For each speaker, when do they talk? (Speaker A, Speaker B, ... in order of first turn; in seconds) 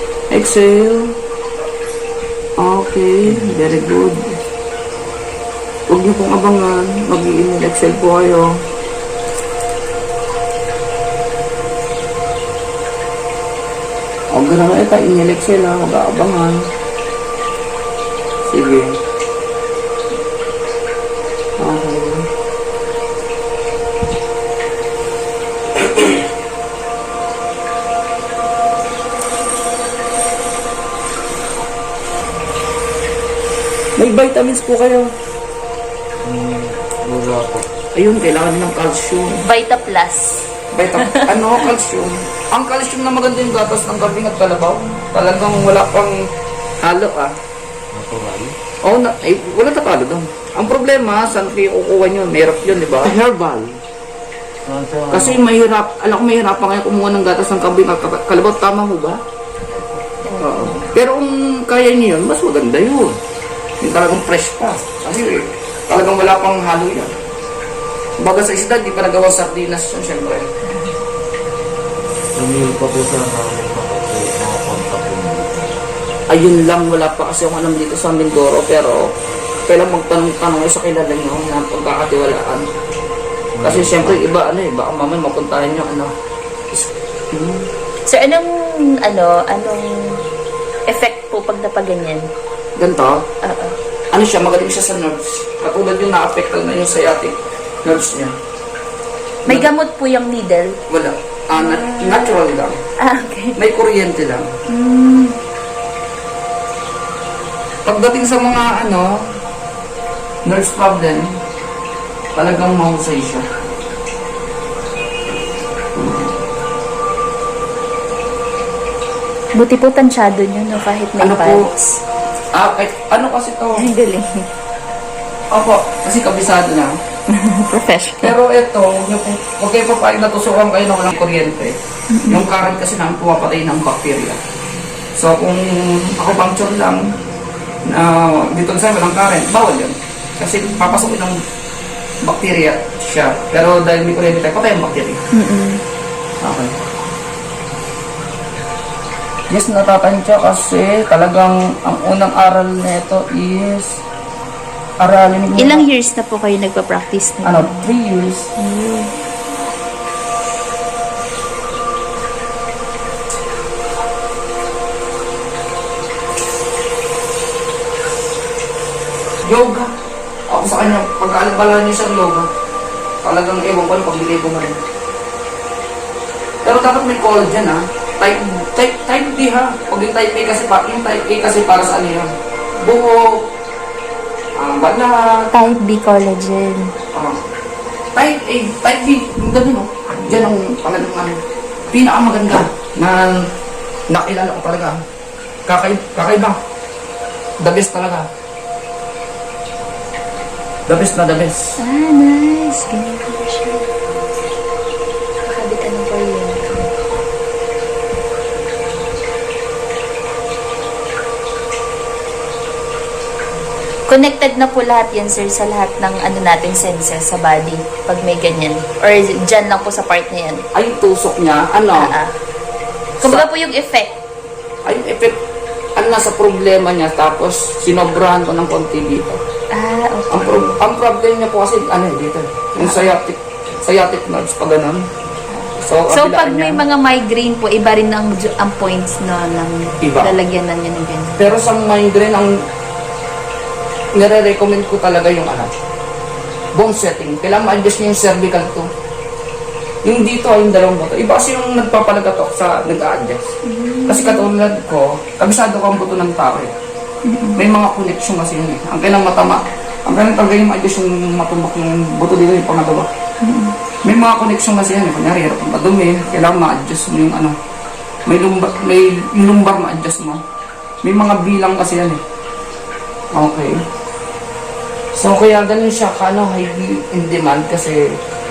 Speaker A: 0.3-1.1, 2.6-4.2, 5.9-8.5, 14.3-16.6, 18.5-18.9, 21.6-22.3, 34.0-35.1, 38.0-39.4, 40.7-46.1, 46.8-47.3, 48.8-53.7, 55.1-59.2, 60.4-63.2, 63.8-67.1, 68.2-70.5, 76.3-79.0, 79.7-82.6, 83.6-86.1, 86.7-87.6, 92.8-93.2, 94.1-98.3, 100.9-102.8, 103.6-104.5, 107.9-109.1, 110.5-111.3, 112.4-113.5, 121.2-121.7, 122.5-123.8, 125.5-126.9, 128.2-131.7, 132.3-134.4, 135.2-137.1, 137.9-141.4, 142.2-145.2, 146.4-146.7, 149.5-153.9, 155.0-155.9, 157.4-158.5, 169.4-169.9, 170.5-172.5, 173.2-174.8, 176.6-182.3, 182.8-183.4, 184.6-185.5, 188.2-191.4, 191.9-193.4, 194.1-195.0, 195.7-196.6, 197.6-198.3, 200.9-201.7, 220.8-222.1, 224.8-225.4, 226.0-229.4, 230.3-235.0, 235.8-236.8, 240.0-240.3, 241.4-242.5, 244.2-245.7, 246.8-248.9, 250.1-253.4, 254.1-256.7, 257.6-263.1, 264.1-267.6, 268.3-270.4, 271.0-272.2, 273.4-273.8, 275.1-278.0
Speaker B: 36.2-37.6, 47.9-48.5, 54.6-55.4, 72.4-75.7, 83.6-84.1
Speaker C: 39.4-40.4, 41.0-41.5, 59.7-60.9, 88.1-90.2, 90.9-92.3, 93.4-93.8, 99.5-100.8, 101.5-102.4, 103.0-103.6, 104.7-105.4, 119.5-122.0, 123.8-124.5, 127.3-128.3, 132.1-132.4, 145.3-145.8, 155.6-157.9, 158.6-159.1, 185.5-186.9, 201.8-203.9, 205.5-206.9, 214.1-220.6, 222.0-222.3, 223.2-224.2, 229.7-230.8, 235.5-241.6, 253.7-254.5, 257.2-257.6, 263.4-263.8